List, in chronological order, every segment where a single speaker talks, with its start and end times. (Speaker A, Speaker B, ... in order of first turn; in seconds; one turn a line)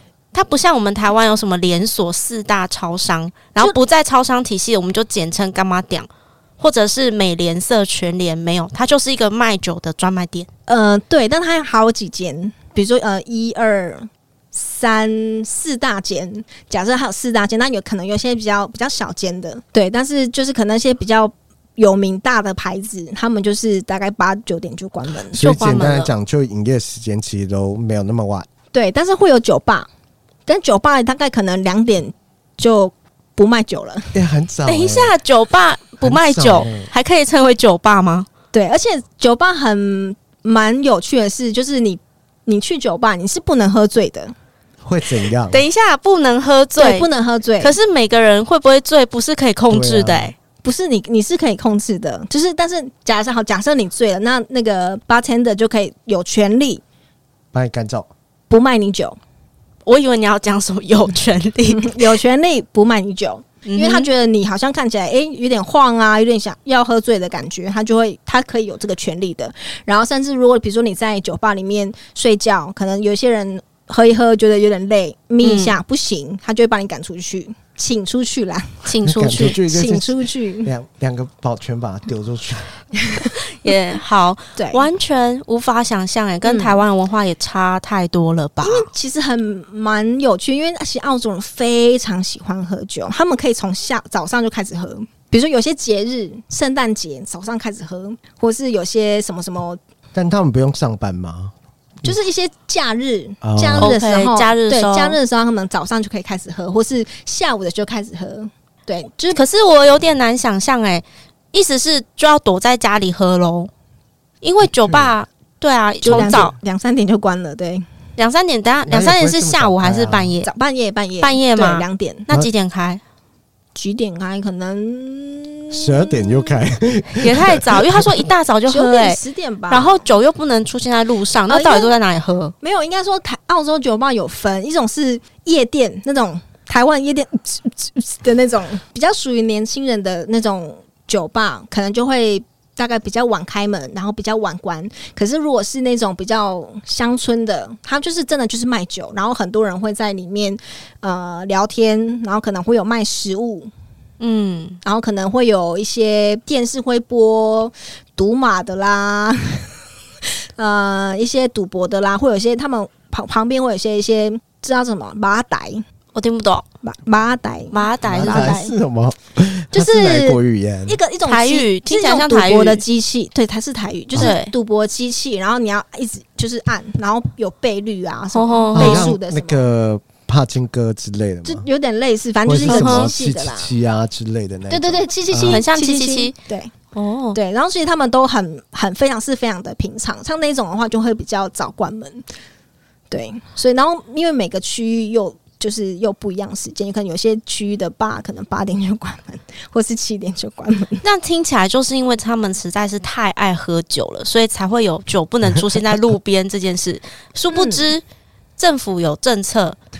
Speaker A: 0.3-6.1
Speaker A: 6.6-10.5
Speaker B: 10.7-25.4
Speaker A: 25.3-26.1
Speaker C: 25.3-28.5
Speaker B: 28.7-29.9
Speaker B: 30.5-34.1
Speaker C: 34.1-35.1
Speaker A: 34.6-38.3
Speaker C: 36.0-36.9
Speaker B: 38.5-44.3
Speaker C: 44.8-45.6
Speaker A: 45.5-47.1
Speaker B: 46.8-47.7
Speaker A: 47.6-50.3
Speaker C: 49.7-50.3
Speaker B: 50.6-56.8
Speaker C: 57.5-58.1
Speaker B: 58.5-59.2
Speaker A: 59.8-62.2
Speaker B: 61.8-78.8
Speaker A: 63.6-64.1
Speaker A: 75.4-75.7
Speaker A: 78.8-79.6
Speaker C: 79.0-82.9
Speaker B: 79.6-80.7
Speaker A: 83.6-88.9
Speaker B: 84.5-84.8
Speaker B: 86.4-86.8
Speaker B: 88.6-99.8
Speaker C: 100.1-102.1
Speaker B: 102.0-109.4
Speaker C: 103.4-103.9
Speaker A: 103.8-105.2
Speaker A: 109.3-113.7
Speaker A: 114.4-116.5
Speaker C: 114.8-115.1
Speaker B: 116.0-117.8
Speaker C: 116.1-116.5
Speaker A: 118.2-120.5
Speaker C: 118.9-120.3
Speaker B: 120.4-122.3
Speaker A: 121.2-123.0
Speaker B: 123.7-126.5
Speaker C: 125.7-128.3
Speaker A: 127.2-132.5
Speaker B: 128.7-130.0
Speaker B: 131.5-131.9
Speaker B: 132.6-153.7
Speaker A: 154.2-154.8
Speaker B: 154.8-159.7
Speaker B: 160.6-165.8
Speaker A: 166.1-166.7
Speaker B: 166.8-168.7
Speaker A: 167.7-168.6
Speaker C: 168.0-171.0
Speaker B: 169.7-179.6
Speaker A: 171.2-172.8
Speaker A: 174.2-174.5
Speaker A: 178.3-179.1
Speaker C: 178.7-181.7
Speaker B: 181.4-183.7
Speaker C: 182.4-185.6
Speaker A: 182.7-183.1
Speaker B: 184.7-186.7
Speaker A: 185.5-186.3
Speaker A: 186.9-187.4
Speaker B: 187.3-192.2
Speaker B: 193.1-201.0
Speaker A: 201.0-208.0
Speaker B: 207.5-207.9
Speaker A: 208.6-209.8